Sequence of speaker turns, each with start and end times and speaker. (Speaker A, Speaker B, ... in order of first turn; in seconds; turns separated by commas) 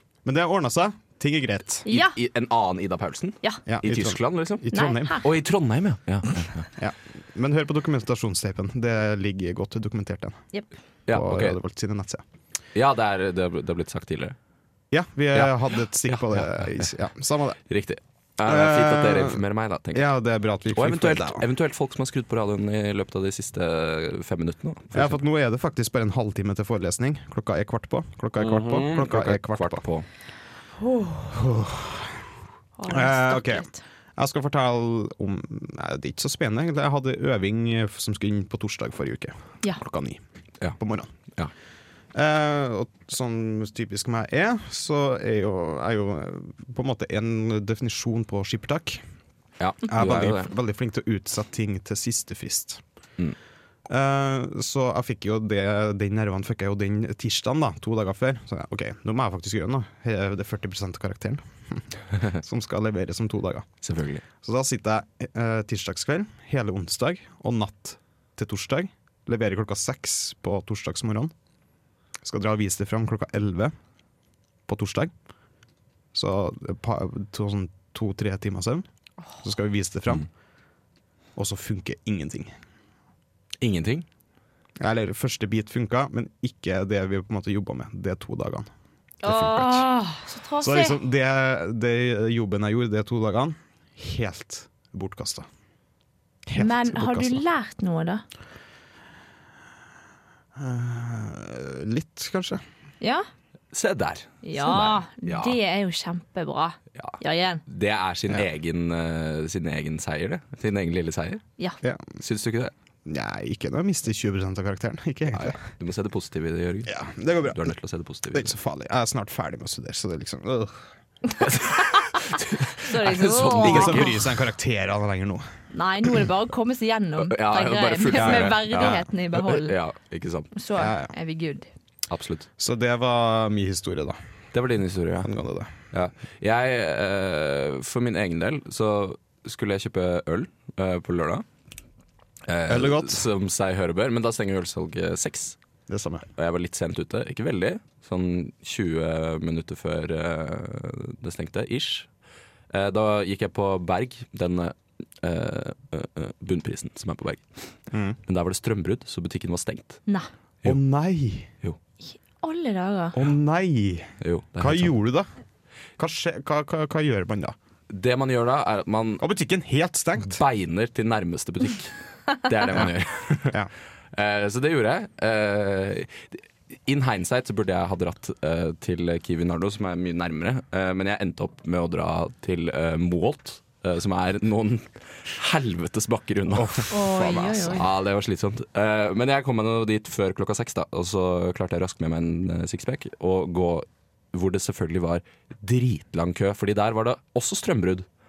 Speaker A: 0.2-1.9, Speaker B: 1.9-2.1, Speaker C: 1.9-4.7, Speaker A: 3.6-5.2, Speaker B: 4.7-5.2, Speaker C: 5.2-6.7, Speaker A: 6.8-10.4, Speaker C: 11.1-11.6, Speaker A: 11.1-12.2, Speaker C: 12.7-14.3, Speaker A: 14.9-17.6, Speaker C: 15.3-16.9, Speaker C: 17.7-20.1, Speaker A: 18.4-19.4, Speaker A: 19.9-21.4, Speaker C: 20.7-25.2, Speaker A: 24.9-29.8, Speaker C: 28.4-30.1, Speaker B: 30.8-31.4, Speaker A: 31.3-32.2, Speaker B: 32.8-33.8, Speaker A: 32.9-40.2, Speaker A: 40.8-41.1, Speaker A: 42.1-49.0, Speaker C: 49.6-50.5, Speaker A: 49.9-52.8, Speaker A: 53.9-63.6, Speaker C: 63.8-64.2, Speaker A: 64.4-71.3, Speaker A: 72.2-73.7, Speaker A: 74.7-75.1, Speaker A: 76.1-78.8, Speaker A: 79.4-80.3, Speaker A: 81.3-82.5, Speaker C: 83.6-84.0, Speaker A: 84.8-88.7, Speaker B: 89.2-91.0, Speaker A: 89.2-89.9, Speaker A: 90.6-95.5, Speaker A: 96.5-97.4, Speaker B: 96.5-98.2, Speaker A: 100.5-102.6, Speaker B: 103.0-103.2, Speaker C: 103.7-105.6, Speaker B: 104.4-107.6, Speaker C: 106.9-111.4, Speaker C: 112.2-112.7, Speaker A: 113.0-115.6, Speaker C: 115.3-118.5, Speaker A: 116.8-117.7, Speaker A: 118.3-120.9, Speaker C: 121.4-124.2, Speaker B: 122.8-124.2, Speaker A: 123.6-125.4, Speaker B: 125.7-129.7, Speaker C: 127.2-130.5, Speaker A: 128.1-129.0, Speaker B: 130.5-131.7, Speaker A: 130.8-131.1, Speaker C: 132.1-132.5, Speaker A: 132.6-134.2, Speaker C: 134.5-135.3, Speaker A: 135.2-135.7, Speaker C: 135.9-141.4, Speaker C: 142.5-145.6, Speaker A: 142.7-143.3, Speaker A: 145.9-146.3, Speaker C: 146.3-152.1, Speaker C: 152.7-157.7, Speaker A: 157.9-158.2, Speaker C: 158.2-160.0, Speaker A: 160.6-161.5, Speaker B: 162.0-163.2, Speaker A: 163.1-165.3, Speaker C: 164.2-164.9, Speaker A: 166.0-167.6, Speaker C: 167.9-169.2, Speaker A: 169.2-170.4, Speaker C: 170.3-173.6, Speaker C: 174.1-198.0, Speaker A: 186.5-186.8, Speaker B: 186.9-187.9